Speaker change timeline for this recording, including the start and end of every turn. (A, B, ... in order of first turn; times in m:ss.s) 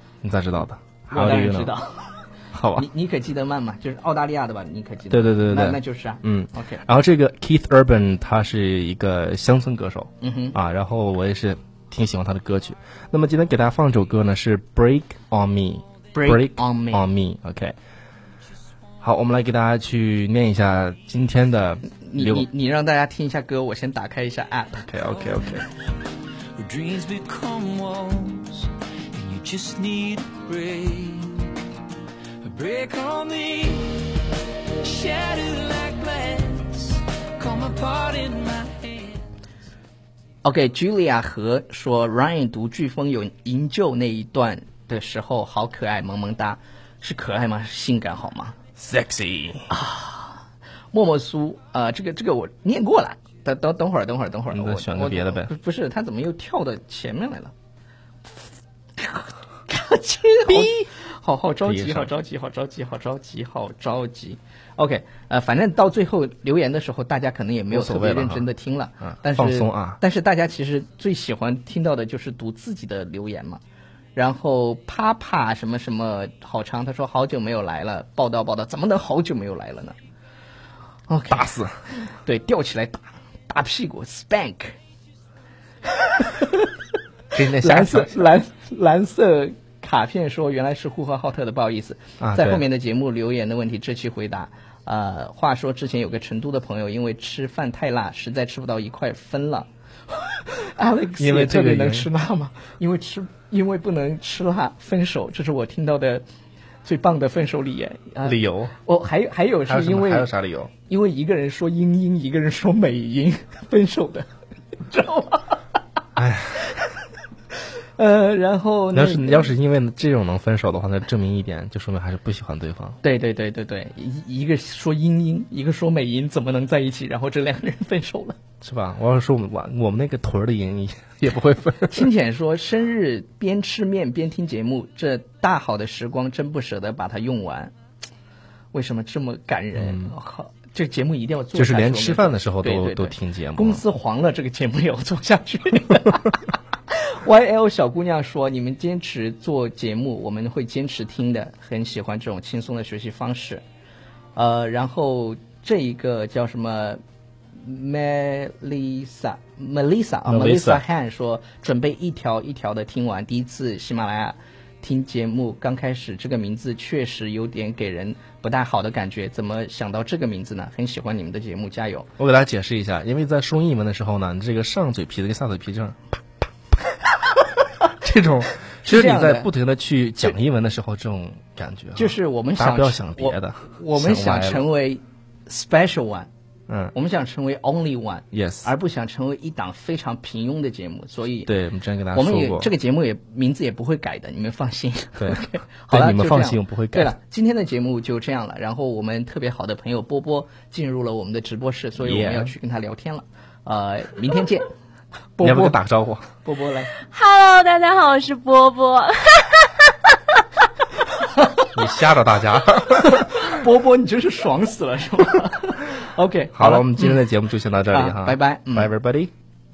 0:00.2-0:01.7 A
0:01.1-0:02.2 B
0:02.5-0:02.8 A
0:02.7-0:06.8 B
0:05.1-0:17.7 A
0:10.2-0:10.6 B
0:16.1-0:17.0 B
0:19.0-0:22.4 A
0:21.9-0:25.0 B
0:24.9-0:25.7 A
0:26.6-0:31.5 C
0:32.4-0:34.2 C
0:34.8-0:39.2 C
0:40.4-0:48.6 B
0:48.8-0:49.7 A
0:49.7-0:50.4 B
0:50.9-0:57.5 B
0:54.5-0:55.5 A
0:59.0-1:13.6 B
1:01.6-1:02.1 A
1:07.7-1:08.4 A
1:09.0-1:10.0 A
1:14.1-1:19.9 B
1:21.1-1:24.7 B
1:21.3-1:21.7 A
1:25.9-1:26.7 B
1:27.3-1:28.2 A
1:27.5-1:46.2 B
1:32.2-1:32.6 A
1:41.2-1:42.1 A
1:46.8-1:50.3 B
1:48.2-1:48.7 A
1:49.7-1:50.7 A
1:50.8-1:54.3 B
1:54.8-1:55.6 B
1:56.2-1:56.6 A
1:58.0-1:59.5 B
1:58.9-2:03.0 A
2:03.0-2:08.4 B
2:08.6-2:12.1 A
2:11.9-2:17.7 B
2:18.7-2:33.6 B
2:19.8-2:20.1 A
2:21.5-2:23.8 A
2:34.3-2:37.0 B
2:37.6-2:52.1 B
2:40.2-2:40.8 A
2:52.2-2:56.0 A
2:57.9-3:04.7 A
2:58.8-2:59.5 B
3:02.0-3:06.3 B
3:06.7-3:06.9 A
3:06.9-3:11.5 B
3:08.3-3:08.7 A
3:11.4-3:12.7 A
3:12.1-3:24.6 B
3:15.2-3:17.1 A
3:22.0-3:22.5 A
3:25.4-3:25.8 B
3:25.4-3:26.2 A
3:26.4-3:26.9 B
3:27.0-3:30.1 D
3:31.2-3:31.7 B
3:31.7-3:33.6 A
3:32.9-3:37.2 B
3:36.5-3:39.3 A
3:37.9-3:38.9 B